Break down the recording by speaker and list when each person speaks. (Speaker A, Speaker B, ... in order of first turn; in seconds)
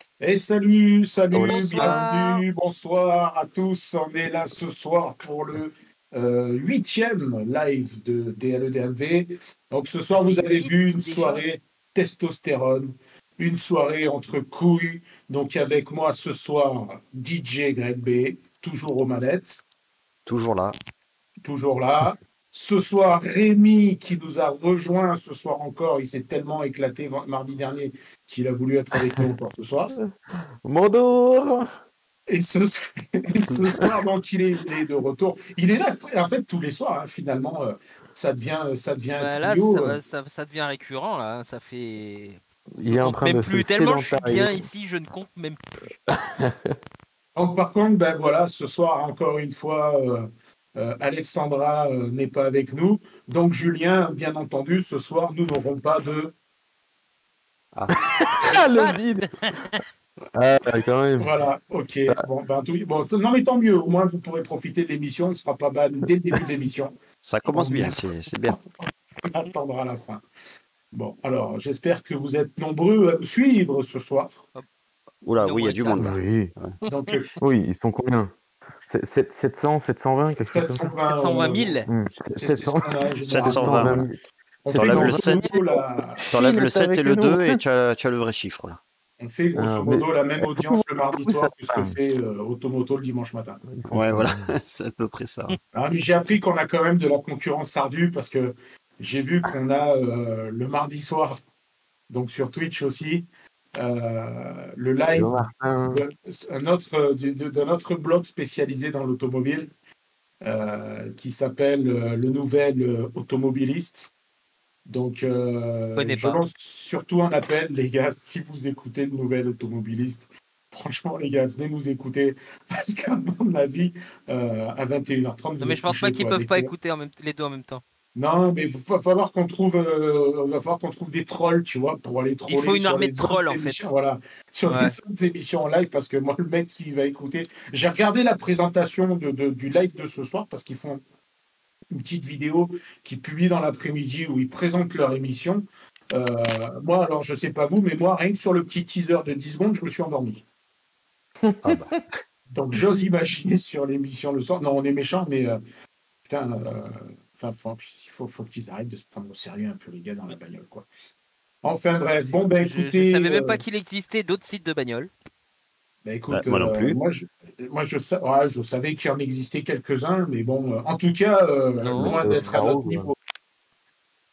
Speaker A: 0.2-19.6, 21.4-30.0, 32.3-40.0, 47.4-56.3, 61.2-67.0, 67.5-68.0, 69.3-70.2, 70.9-74.4, 76.9-77.3, 80.5-84.1, 84.6-86.3, 89.2-93.6, 95.7-101.4, 102.1-109.7, 110.4-114.1, 114.9-126.7, 128.2-141.0, 141.9-150.4, 152.5-155.6, 156.3-160.9, 161.6-163.6, 166.1-173.2
Speaker B: 1.3-2.0, 29.9-31.7, 42.8-44.7, 46.1-46.8, 58.0-59.7, 60.3-61.3, 76.0-76.5, 77.4-78.3, 78.9-80.9, 81.9-84.1, 84.7-85.6, 86.2-87.6, 89.6-92.0, 93.7-94.5, 105.2-106.0, 151.4-151.8, 172.0-173.1
Speaker C: 1.4-2.4, 10.1-11.4, 39.2-45.9, 58.5-59.8, 75.4-76.1, 81.0-81.9, 116.0-116.4, 125.6-127.8, 132.5-133.8, 134.7-134.9, 162.6-165.1, 171.8-172.2
Speaker D: 20.3-20.8, 57.7-58.6, 67.2-68.6, 75.2-76.8, 83.3-84.0, 84.7-85.5, 86.3-88.8, 93.9-95.6, 151.6-152.0, 166.3-167.0